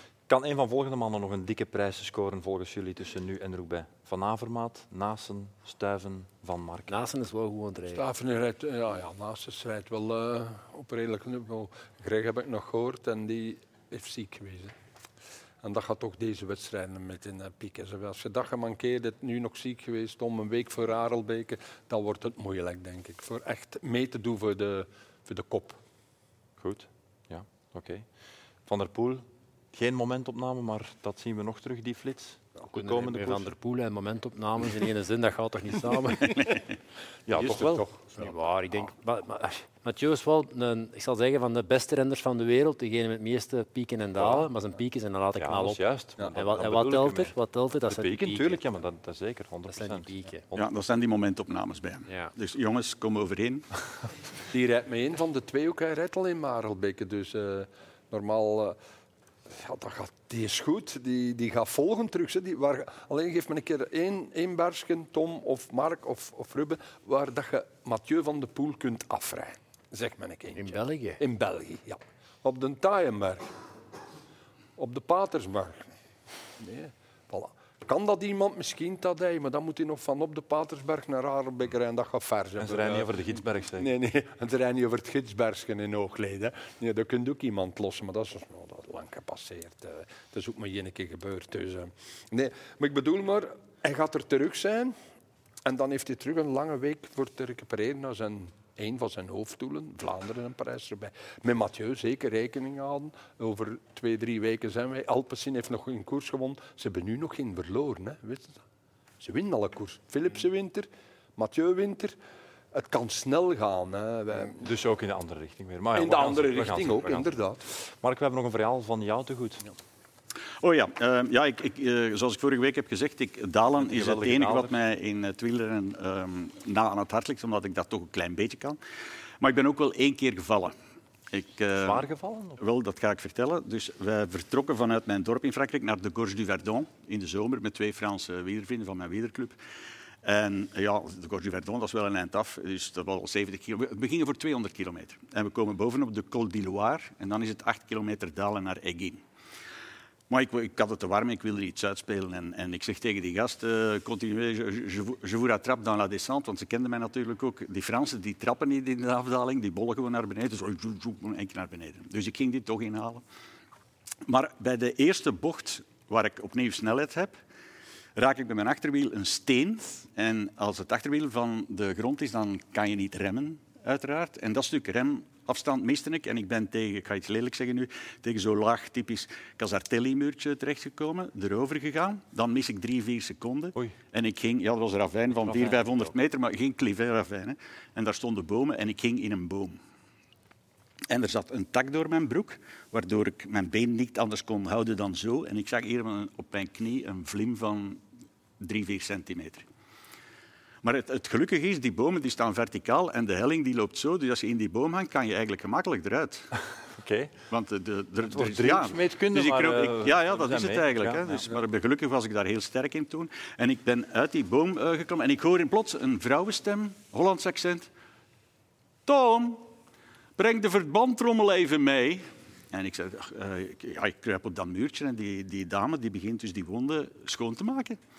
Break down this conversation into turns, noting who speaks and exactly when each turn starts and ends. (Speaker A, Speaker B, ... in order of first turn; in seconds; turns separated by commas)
Speaker A: 0.3-6.9, Speaker B: 6.9-8.0, Speaker C: 7.9-14.7, Speaker C: 15.6-25.8, Speaker A: 26.6-28.1, Speaker A: 28.7-33.5, Speaker B: 32.7-36.4, Speaker A: 37.3-37.9, Speaker C: 37.3-38.1, Speaker B: 38.1-45.8, Speaker A: 44.2-44.5, Speaker A: 45.4-47.3, Speaker B: 46.3-48.8, Speaker A: 47.9-50.7, Speaker B: 49.7-50.4, Speaker D: 50.5-53.7, Speaker B: 52.1-52.3, Speaker C: 54.5-58.8, Speaker C: 59.5-73.5, Speaker B: 70.5-71.2, Speaker C: 74.8-75.9, Speaker C: 76.6-94.9, Speaker A: 82.6-83.9, Speaker C: 95.6-108.6, Speaker C: 109.2-112.2, Speaker C: 112.7-114.7, Speaker A: 114.6-117.3, Speaker C: 116.0-117.6, Speaker A: 118.0-119.6, Speaker D: 120.6-128.8, Speaker A: 123.8-124.8, Speaker D: 129.4-130.7, Speaker D: 131.3-132.1, Speaker A: 131.8-132.6, Speaker D: 132.6-139.6, Speaker D: 140.2-149.2, Speaker D: 150.3-163.2, Speaker D: 164.3-167.3, Speaker D: 168.2-189.8, Speaker A: 185.3-186.1, Speaker D: 191.1-198.0, Speaker D: 198.6-199.6, Speaker D: 200.8-206.5, Speaker A: 206.9-207.3, Speaker D: 207.5-217.9, Speaker A: 208.3-211.5, Speaker D: 219.1-219.7, Speaker D: 220.4-228.0